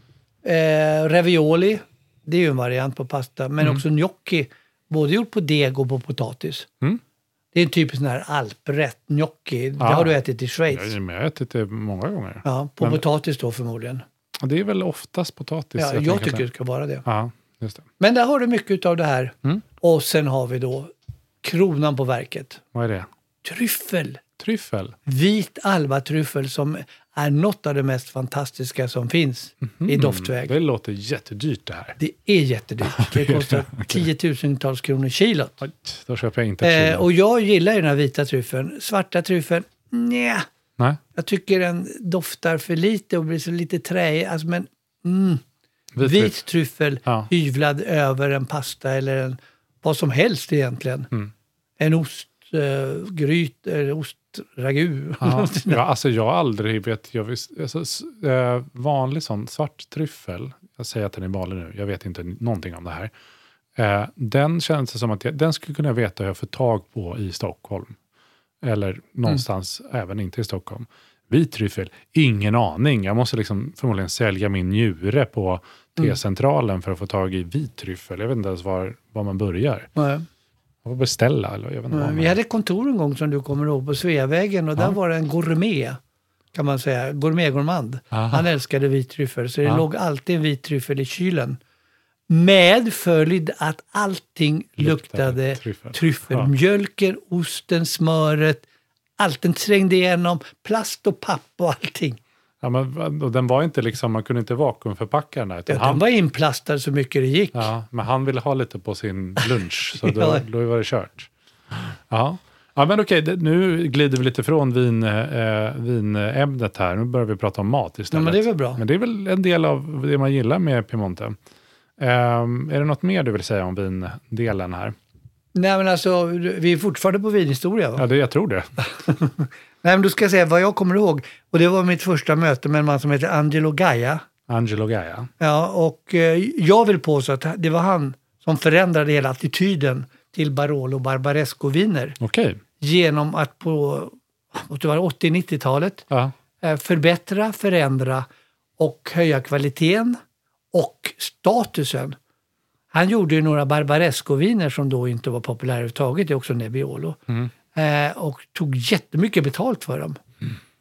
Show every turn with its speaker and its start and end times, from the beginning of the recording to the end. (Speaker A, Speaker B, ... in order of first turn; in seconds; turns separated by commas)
Speaker A: 0.4-6.7, Speaker A: 7.5-10.9, Speaker B: 9.8-10.2, Speaker B: 10.7-13.0, Speaker A: 12.4-14.0, Speaker B: 14.4-16.5, Speaker A: 15.8-17.0, Speaker B: 17.1-17.9, Speaker A: 18.0-22.6, Speaker B: 22.7-23.1, Speaker A: 23.4-24.2, Speaker B: 24.4-25.0, Speaker A: 25.1-30.5, Speaker B: 29.7-32.0, Speaker A: 32.0-35.6, Speaker B: 32.8-34.1, Speaker B: 35.6-37.1, Speaker A: 36.6-40.5, Speaker A: 41.1-45.4, Speaker B: 46.0-46.4, Speaker A: 46.0-51.1, Speaker A: 51.8-55.8, Speaker B: 55.2-63.1, Speaker B: 63.8-68.0, Speaker B: 68.6-79.9, Speaker A: 80.0-80.3, Speaker B: 80.8-82.4, Speaker A: 81.9-86.0, Speaker A: 86.5-91.6, Speaker B: 88.1-88.5, Speaker A: 92.3-98.7, Speaker B: 94.8-96.5, Speaker A: 99.2-102.2, Speaker B: 102.6-106.0, Speaker A: 105.7-107.7, Speaker B: 107.5-121.4, Speaker A: 110.0-110.4, Speaker A: 118.1-118.8, Speaker B: 122.0-125.0, Speaker A: 125.5-128.1, Speaker B: 128.0-128.7, Speaker A: 129.0-134.2, Speaker B: 134.5-135.3, Speaker A: 135.4-142.2, Speaker B: 142.2-142.6, Speaker A: 142.8-146.1, Speaker A: 146.6-148.3, Speaker A: 148.8-150.2, Speaker A: 150.7-152.2, Speaker A: 152.9-157.2, Speaker A: 157.7-160.2